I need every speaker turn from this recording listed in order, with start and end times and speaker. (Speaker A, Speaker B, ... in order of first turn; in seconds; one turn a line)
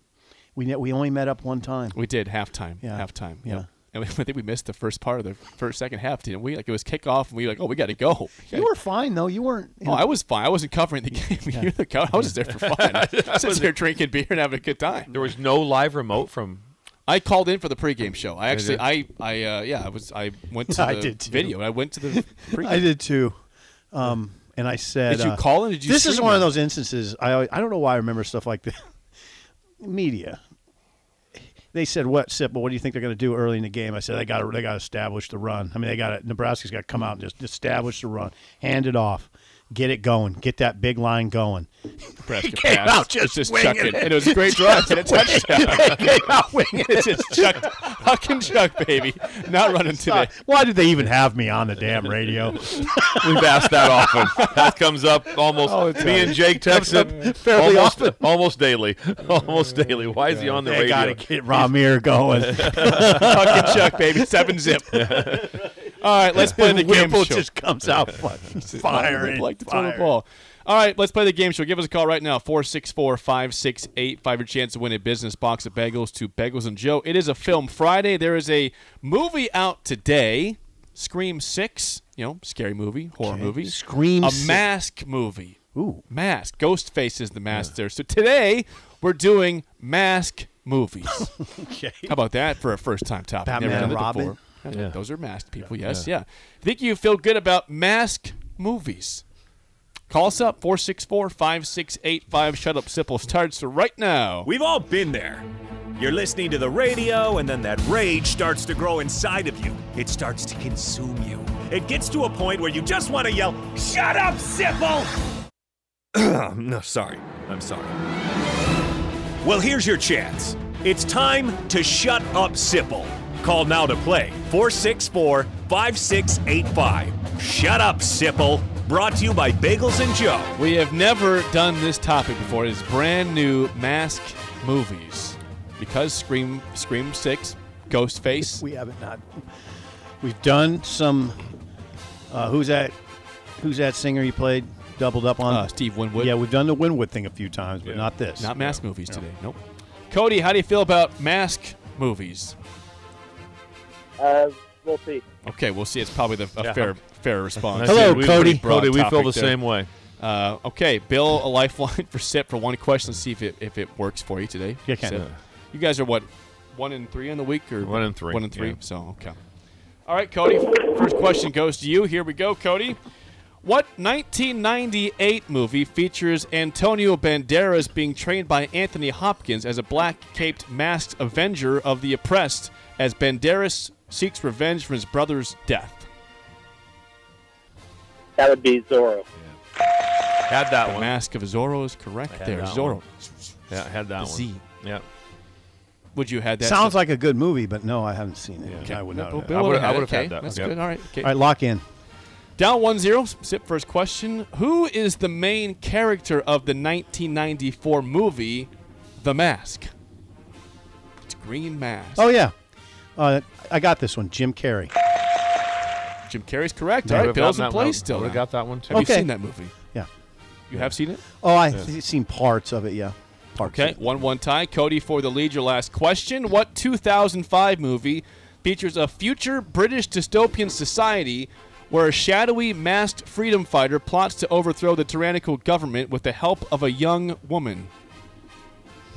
Speaker A: 0.5-2.0
Speaker B: 1.9-8.7
Speaker A: 2.8-3.7
Speaker A: 8.5-10.1
Speaker B: 9.8-15.1
Speaker C: 12.6-13.7
Speaker C: 15.1-16.7
Speaker B: 17.1-22.9
Speaker C: 18.5-18.9
Speaker A: 20.7-23.4
Speaker A: 23.9-28.8
Speaker B: 25.1-26.5
Speaker A: 29.8-30.4
Speaker A: 31.7-47.7
Speaker B: 42.2-50.3
Speaker A: 49.7-54.6
Speaker C: 53.2-61.7
Speaker A: 55.6-58.2
Speaker A: 60.6-65.7
Speaker C: 62.4-63.7
Speaker B: 63.0-65.2
Speaker C: 64.9-65.7
Speaker B: 65.8-67.5
Speaker A: 66.3-70.2
Speaker B: 68.7-85.6
Speaker A: 83.2-84.7
Speaker A: 85.7-86.0
Speaker B: 86.1-91.3
Speaker A: 91.1-92.2
Speaker B: 92.1-99.2
Speaker A: 93.4-94.4
Speaker B: 100.1-104.5
Speaker D: 104.4-115.2
Speaker C: 116.1-117.9
Speaker D: 119.4-130.5
Speaker B: 130.6-138.6
Speaker A: 138.4-139.4
Speaker A: 140.2-141.5
Speaker A: 142.3-142.9
Speaker A: 143.6-148.5
Speaker B: 145.4-146.4
Speaker C: 147.8-149.2
Speaker B: 148.4-149.6
Speaker B: 150.1-152.6
Speaker E: 154.2-155.2
Speaker B: 155.4-159.6
Speaker C: 156.6-157.0
Speaker C: 157.6-159.9
Speaker A: 157.8-158.6
Speaker B: 160.2-169.4
Speaker A: 164.8-165.2
Speaker C: 167.8-168.8
Speaker B: 170.1-173.0
Speaker B: 173.6-186.1
Speaker E: 188.4-189.2
Speaker C: 190.4-191.1
Speaker B: 190.8-193.6
Speaker C: 192.3-193.0
Speaker C: 193.7-195.0
Speaker B: 194.2-194.6
Speaker B: 196.1-197.0
Speaker A: 196.6-199.6
Speaker C: 198.6-200.7
Speaker B: 198.8-201.3
Speaker A: 200.4-201.8
Speaker B: 202.6-209.9
Speaker B: 211.2-212.3
Speaker A: 212.2-212.5
Speaker A: 213.2-214.9
Speaker B: 216.2-219.7
Speaker A: 217.0-217.3
Speaker C: 217.1-219.1
Speaker A: 218.9-219.3
Speaker B: 220.7-221.2
Speaker A: 221.4-224.0
Speaker B: 223.6-237.9